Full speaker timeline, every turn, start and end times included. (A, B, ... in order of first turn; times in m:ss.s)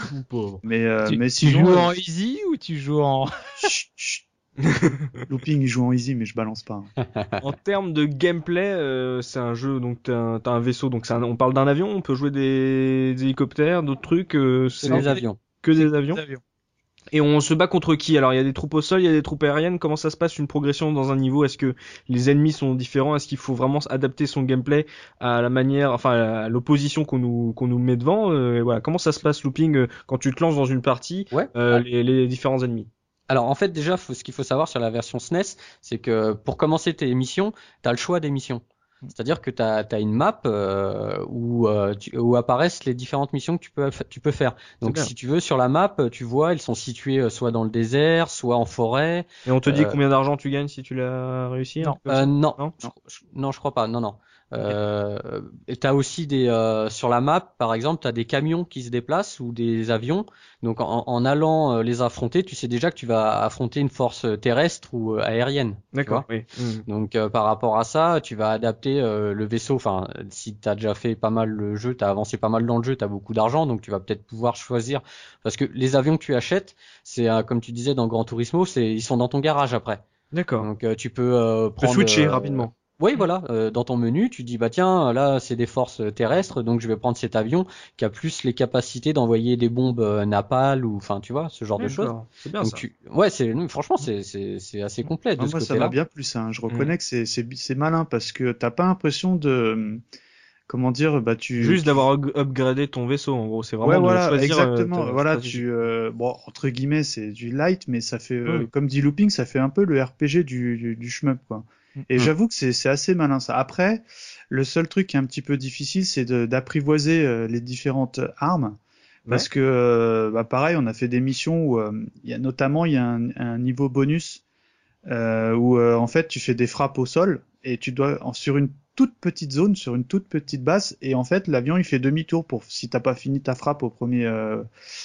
0:00.1-0:00.6 A
0:00.6-0:01.9 B
0:01.1-0:03.3 C
0:03.6-0:04.2 B
0:04.6-0:05.2 A
0:05.3-0:06.9 B
0:07.0-0:07.4 D
0:07.4-0:16.2 A
0:14.8-0:15.4 D
0:14.9-0:15.2 C
0:15.8-0:16.4 C
0:17.1-0:32.9 A
0:31.3-0:31.8 D
0:33.3-0:50.0 D
0:44.8-0:45.1 A
0:49.5-0:52.7 A
0:52.1-1:06.3 D
1:05.9-1:06.8 A
1:06.9-1:20.0 D
1:20.3-1:20.7 A
1:20.6-1:35.9 D
1:21.8-1:23.3 A
1:31.8-1:32.8 A
1:35.4-1:40.0 B
1:36.7-1:36.9 A
1:40.7-1:42.0 B
1:41.6-1:45.6 A
1:43.8-1:58.8 B
1:59.3-2:04.4 B
2:05.1-2:14.6 B